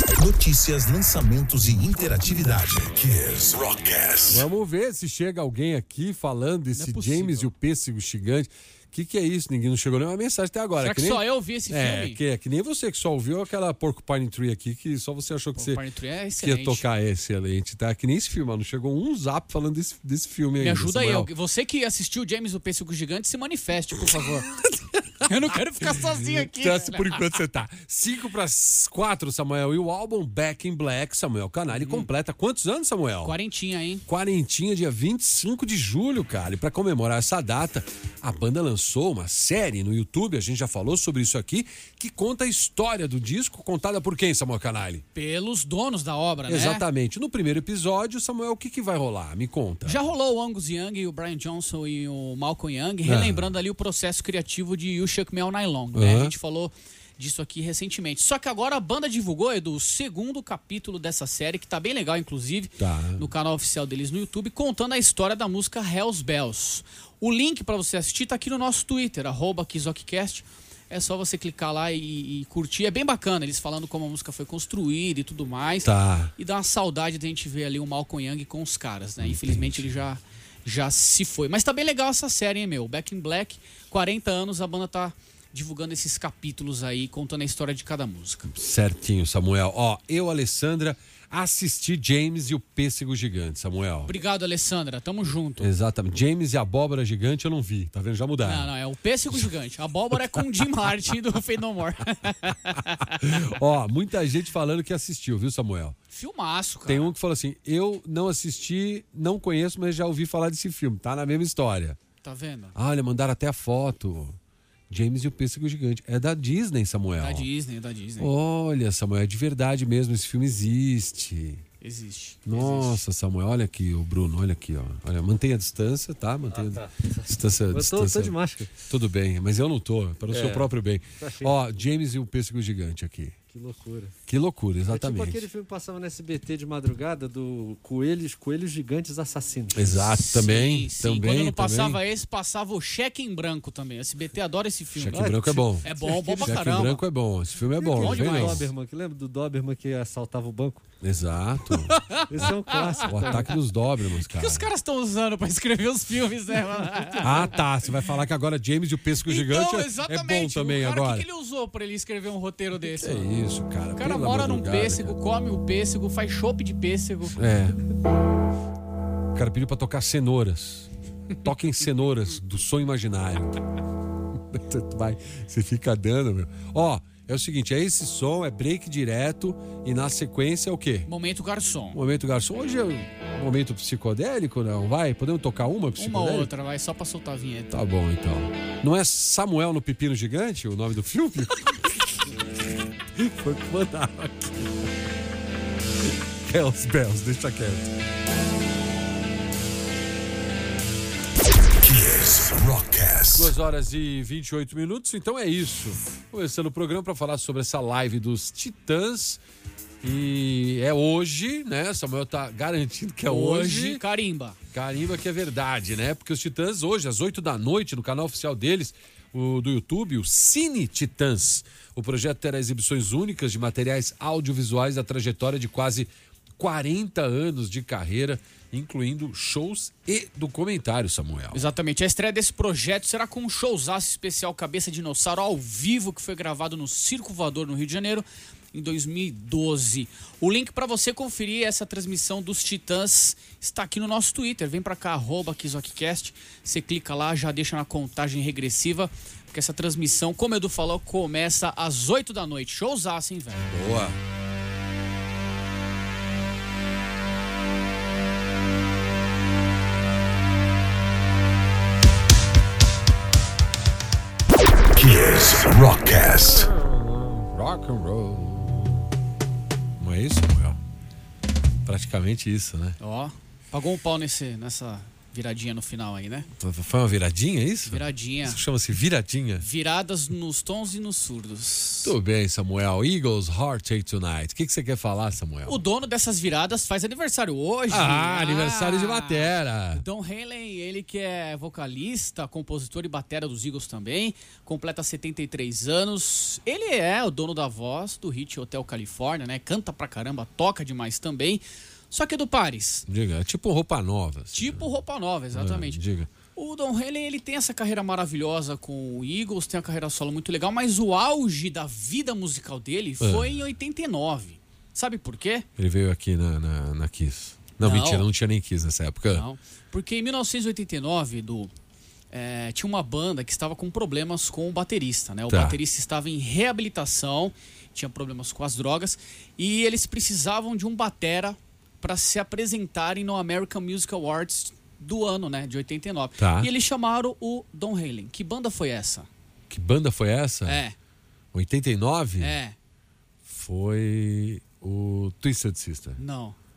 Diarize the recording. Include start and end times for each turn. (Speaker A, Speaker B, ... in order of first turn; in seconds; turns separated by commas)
Speaker A: 0.1-4.5, Speaker B: 4.3-15.8, Speaker C: 6.7-7.5, Speaker C: 10.8-12.2, Speaker C: 15.6-16.8, Speaker B: 16.4-21.3, Speaker C: 20.6-24.5, Speaker C: 25.2-27.2, Speaker B: 25.9-33.4, Speaker C: 31.7-32.1, Speaker C: 33.2-34.0, Speaker B: 34.0-45.0, Speaker C: 45.1-46.8, Speaker B: 46.5-50.0, Speaker C: 49.9-88.5, Speaker B: 53.0-53.5, Speaker B: 55.9-56.3, Speaker B: 62.8-63.2, Speaker B: 75.8-76.3, Speaker B: 79.2-79.9, Speaker B: 88.5-94.1, Speaker C: 94.1-95.7, Speaker B: 95.6-98.7, Speaker C: 98.4-103.2, Speaker B: 100.1-100.4, Speaker B: 103.0-106.0, Speaker C: 106.1-107.1, Speaker B: 106.9-112.0, Speaker C: 112.2-112.7, Speaker B: 112.7-114.3, Speaker B: 114.9-117.5, Speaker C: 117.2-118.3, Speaker B: 118.2-121.6, Speaker C: 121.8-123.0, Speaker B: 122.5-133.3, Speaker D: 126.7-128.7, Speaker D: 130.3-131.6, Speaker D: 133.5-134.1, Speaker B: 134.3-135.4, Speaker D: 134.9-140.1, Speaker B: 139.7-142.0, Speaker C: 140.1-147.0, Speaker B: 144.9-148.7, Speaker D: 145.1-146.6, Speaker D: 147.8-150.8, Speaker C: 147.9-148.7, Speaker B: 151.0-152.1, Speaker C: 151.8-153.4, Speaker D: 152.3-153.5, Speaker B: 153.0-154.7, Speaker C: 154.2-157.6, Speaker B: 157.2-161.2, Speaker C: 159.3-163.3, Speaker B: 162.9-165.2, Speaker C: 163.9-167.3, Speaker B: 167.3-167.8, Speaker B: 169.3-170.9, Speaker B: 171.4-173.6, Speaker B: 174.3-181.1, Speaker C: 181.1-182.0, Speaker B: 181.9-186.5, Speaker C: 186.0-187.7, Speaker B: 187.7-192.3, Speaker B: 193.2-194.8, Speaker B: 196.1-197.9, Speaker A: 201.8-203.5, Speaker B: 203.3-209.4, Speaker B: 210.0-214.0, Speaker C: 213.3-214.6, Speaker B: 214.7-231.6, Speaker C: 231.5-253.8, Speaker B: 253.6-254.2, Speaker A: 264.9-266.6, Speaker B: 266.5-269.1, Speaker B: 270.0-270.8, Speaker B: 271.9-273.0, Speaker C: 273.0-276.5, Speaker B: 276.6-279.6, Speaker C: 277.9-278.6, Speaker C: 279.6-282.1, Speaker B: 282.0-285.8, Speaker C: 285.6-303.0, Speaker B: 287.9-290.0, Speaker B: 303.1-304.9, Speaker C: 304.5-306.0, Speaker B: 305.5-306.3, Speaker C: 306.5-315.6, Speaker B: 313.2-313.6, Speaker B: 315.8-319.4, Speaker C: 317.8-318.3, Speaker C: 319.3-321.7, Speaker C: 322.3-339.3, Speaker B: 325.5-325.8, Speaker B: 336.4-336.7, Speaker B: 339.7-340.8, Speaker C: 340.6-340.9, Speaker B: 341.5-342.6, Speaker C: 342.4-342.8, Speaker B: 343.4-346.2, Speaker C: 346.2-346.6